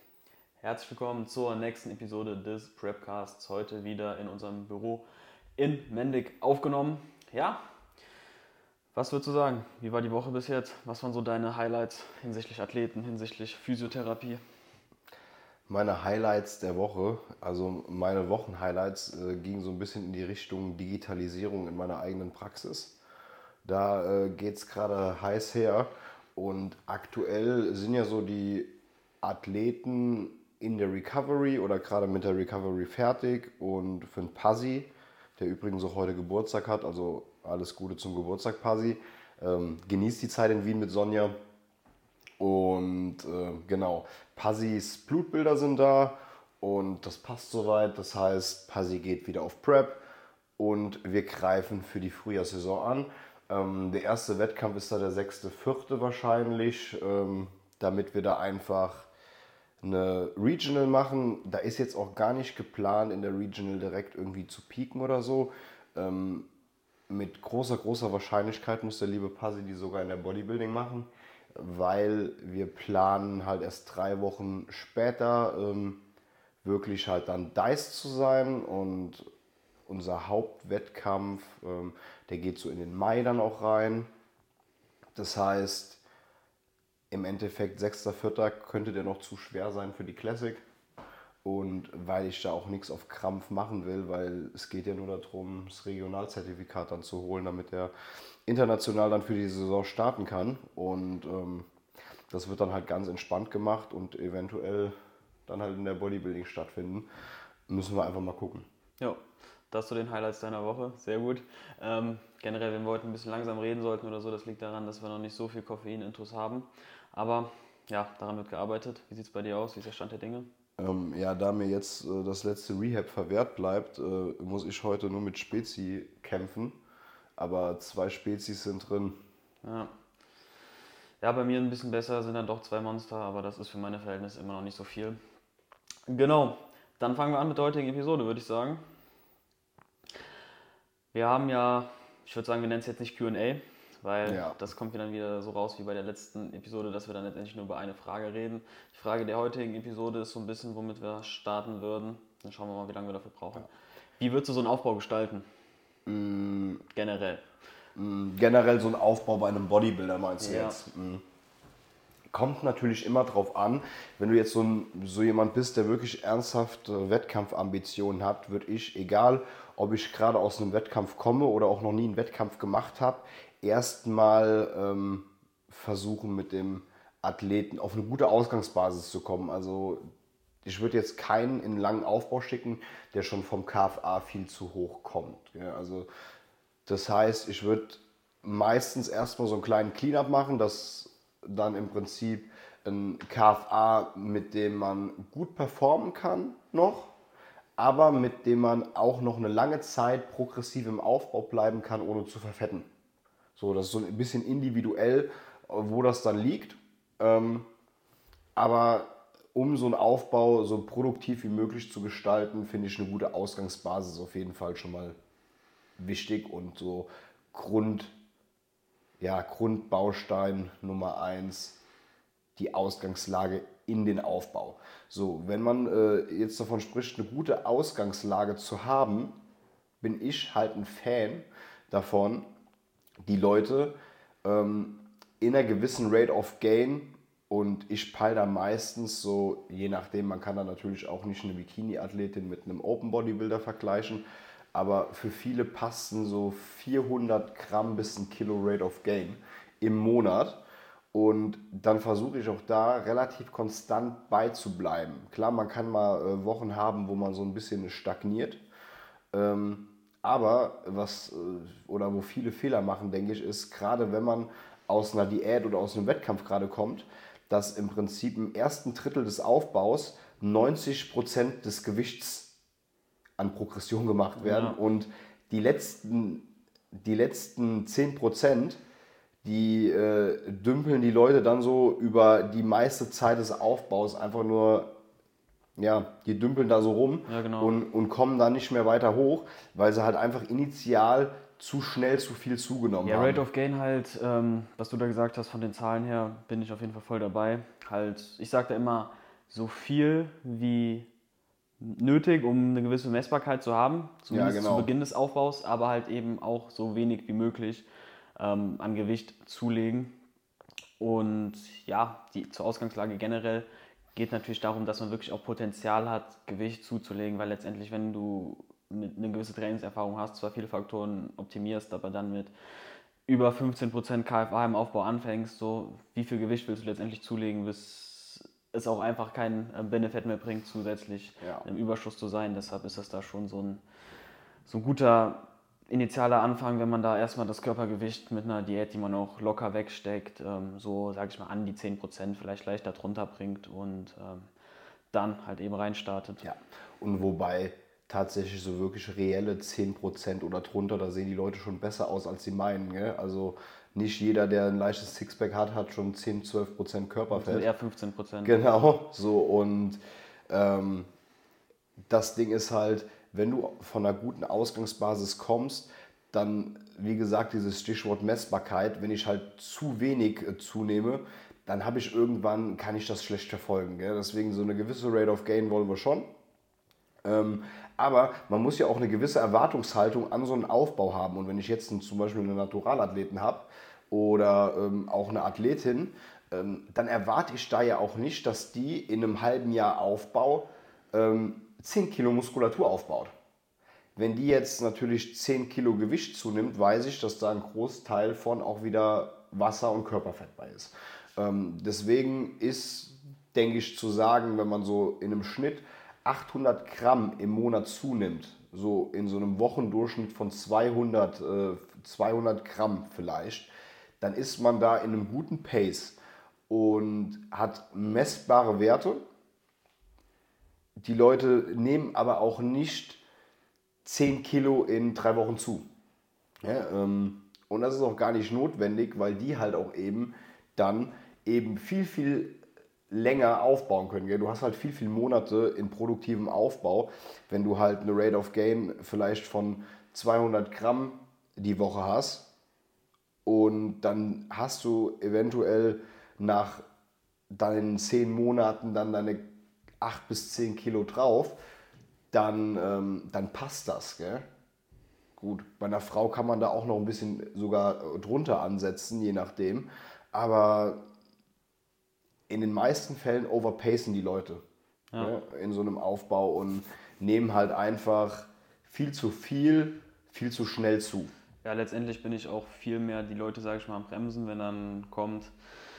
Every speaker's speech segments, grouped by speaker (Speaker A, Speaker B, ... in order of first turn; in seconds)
Speaker A: 0.6-5.0, 5.6-7.6, 8.9-14.4, 109.0-120.5, 129.6-129.9, 131.2-135.2, 136.1-138.8, 141.1-155.5, 156.9-157.4, 160.4-160.8, 274.4-274.8, 287.3-287.8, 293.0-301.1, 301.8-307.9, 308.4-310.1, 311.0-322.5, 323.3-333.8, 334.7-344.5, 345.1-346.4, 357.3-358.6, 471.6-475.5
Speaker B: 15.7-23.0, 23.6-41.4, 42.4-50.0, 50.6-59.1, 59.8-66.5, 67.1-76.0, 76.6-79.3, 79.9-84.1, 85.2-86.0, 87.1-90.6, 91.4-97.9, 98.5-101.7, 102.3-104.9, 105.5-107.1, 107.7-108.7, 120.8-126.8, 127.4-129.2, 144.2-144.6, 156.1-156.8, 158.0-161.2, 162.3-180.0, 180.6-186.1, 186.9-197.1, 197.8-202.9, 203.6-207.7, 208.6-215.2, 216.0-218.2, 219.2-221.8, 222.6-229.4, 230.0-232.5, 233.3-250.6, 251.1-258.6, 259.3-272.5, 273.4-278.8, 279.4-284.9, 285.8-293.4, 304.3-304.9, 331.4-331.7, 346.4-357.7, 358.4-361.1, 362.1-376.3, 377.2-393.3, 394.2-416.2, 416.7-419.2, 421.0-423.2, 424.1-425.9, 426.6-432.6, 433.1-442.5, 443.5-446.8, 447.5-449.5, 450.0-451.6, 452.3-454.4, 455.4-461.0, 462.5-464.6, 465.2-471.3